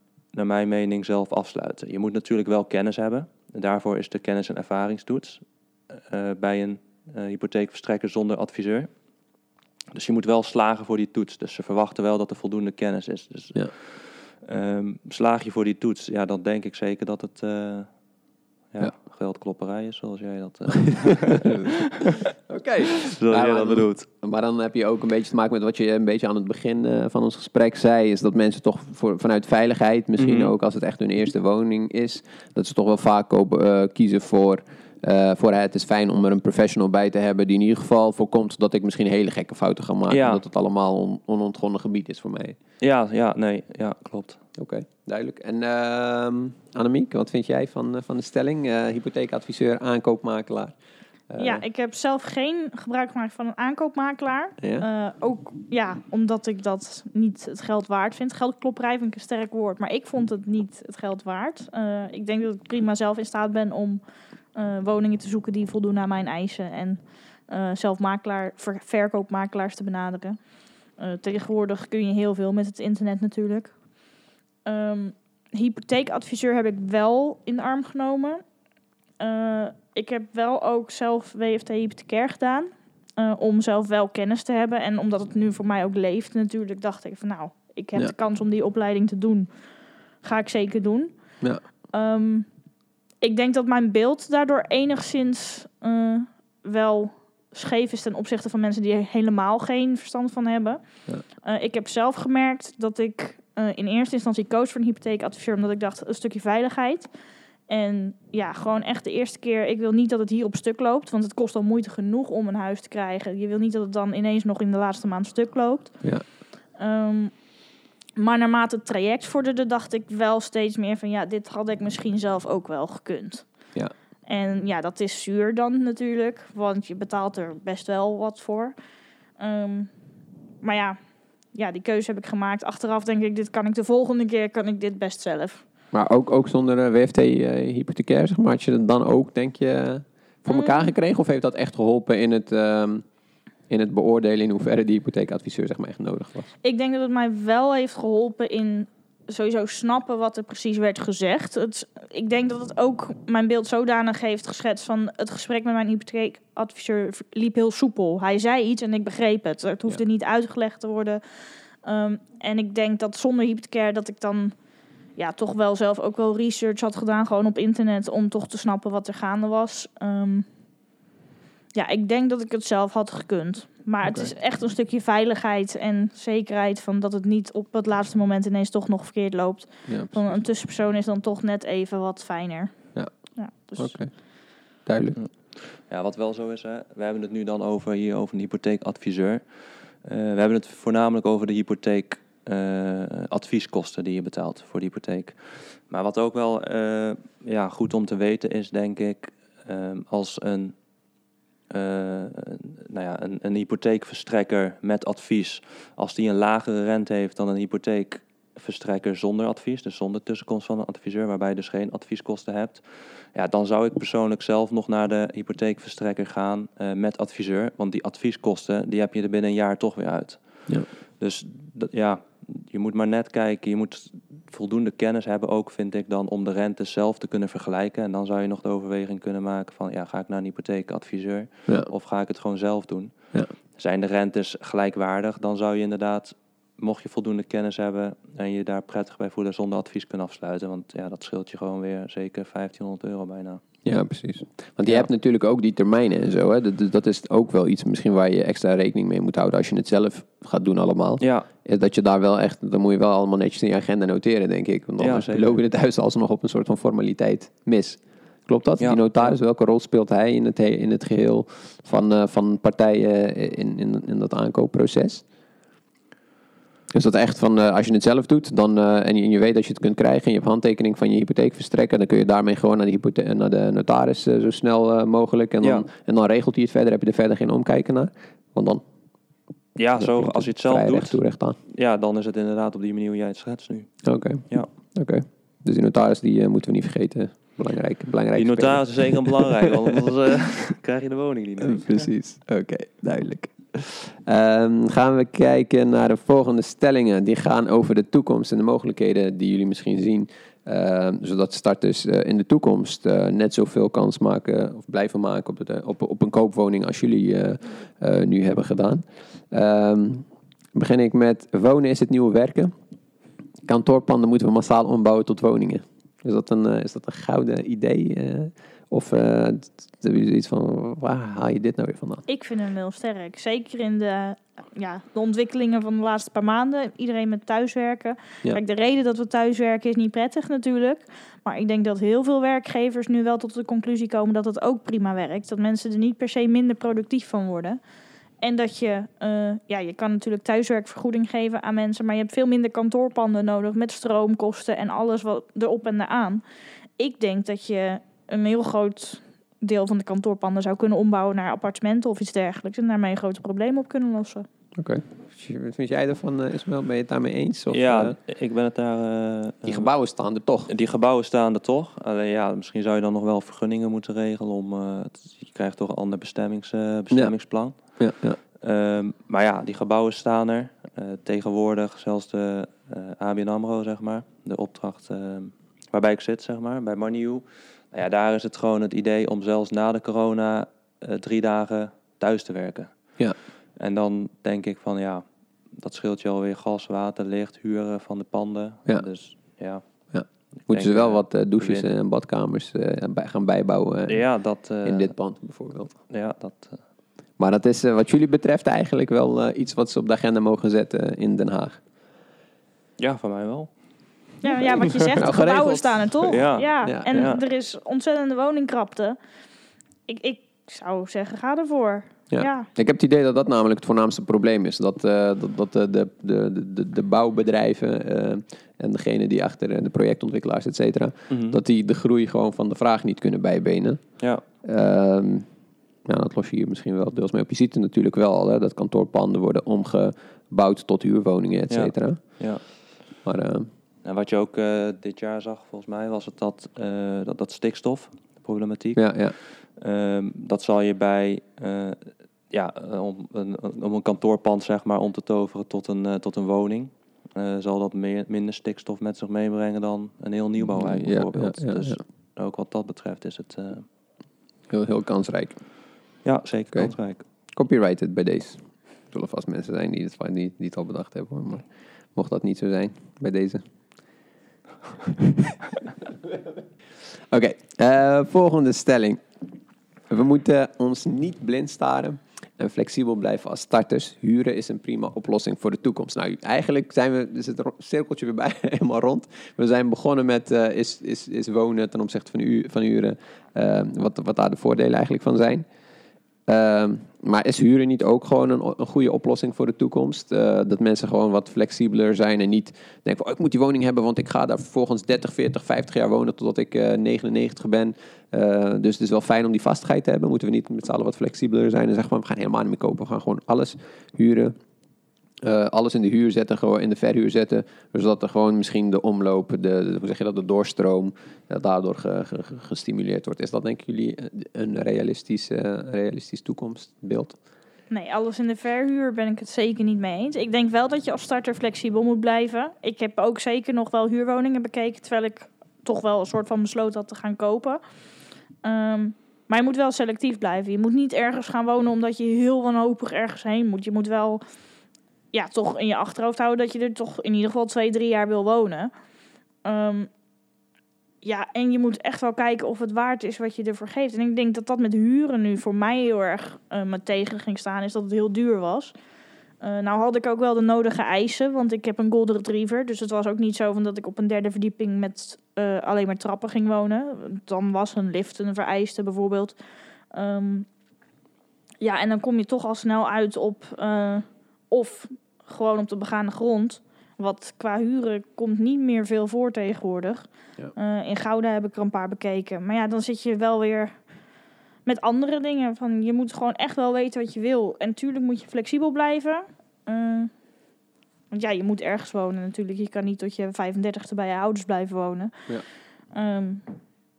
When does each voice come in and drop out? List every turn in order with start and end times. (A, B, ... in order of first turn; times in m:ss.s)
0:00.3-0:08.9 A
0:09.9-0:18.0 A
0:18.7-0:21.8 A
0:22.5-0:42.6 B
0:23.1-0:24.1 A
0:30.2-0:30.5 A
0:40.1-0:40.4 A
0:42.8-0:44.4 A
0:44.6-0:50.8 B
0:51.3-0:51.6 B
0:51.4-1:04.0 C
0:54.6-0:54.9 B
1:04.5-1:18.4 C
1:19.2-1:29.6 C
1:30.2-1:31.4 C
1:31.9-1:32.5 C
1:33.2-1:47.1 C
1:47.7-1:57.5 C
1:58.2-2:03.7 C
2:04.2-2:08.7 C
2:09.4-2:09.9 C
2:10.6-2:11.0 C
2:11.5-2:15.6 C
2:15.9-2:23.0 B
2:20.5-2:20.9 C
2:23.7-2:26.5 B
2:26.6-2:44.6 C
2:45.1-2:50.5 C
2:51.7-3:04.0 C
2:54.0-2:54.3 B
2:59.9-3:00.4 B
3:02.9-3:05.2 B
3:05.2-3:20.8 A
3:21.7-4:03.8 A
4:03.8-4:25.2 B
4:11.2-4:11.4 A
4:15.0-4:15.6 A
4:18.8-4:19.3 A
4:26.9-4:38.8 B
4:39.8-4:44.7 A
4:40.0-4:41.6 B
4:44.0-4:49.7 B
4:48.3-4:52.1 A
4:51.6-5:12.7 B
5:13.6-5:22.2 B
5:22.3-5:37.8 C
5:38.4-5:46.4 C
5:47.0-5:54.5 C
5:54.8-5:58.2 B
5:57.7-5:59.9 A
5:59.6-6:00.7 B
6:00.7-6:31.9 A
6:07.1-6:08.4 B
6:30.1-6:35.9 B
6:34.1-6:35.4 A
6:36.1-6:36.8 A
6:37.4-6:41.8 B
6:43.0-6:43.7 A
6:44.4-6:49.2 C
6:44.4-6:47.3 B
6:46.3-6:47.4 A
6:50.1-6:52.7 C
6:52.3-7:05.5 B
7:01.3-7:01.6 A
7:06.0-7:12.7 B
7:11.7-7:12.8 A
7:13.2-7:13.7 B
7:14.0-7:33.8 A
7:19.0-7:19.4 B
7:30.6-7:32.0 B
7:34.7-7:35.6 B
7:36.2-7:37.2 A
7:37.5-7:43.6 B
7:47.3-7:49.2 B
7:50.1-8:05.6 B
8:06.5-8:24.5 B
8:25.4-8:37.4 B
8:37.9-8:47.8 C
8:48.6-8:54.4 C
8:55.3-8:58.9 C
8:59.6-9:00.1 C
9:01.2-9:08.9 C
9:09.6-9:19.6 C
9:20.1-9:20.7 C
9:21.8-9:34.0 C
9:34.8-9:40.3 C
9:41.3-9:45.5 C
9:46.1-9:46.6 C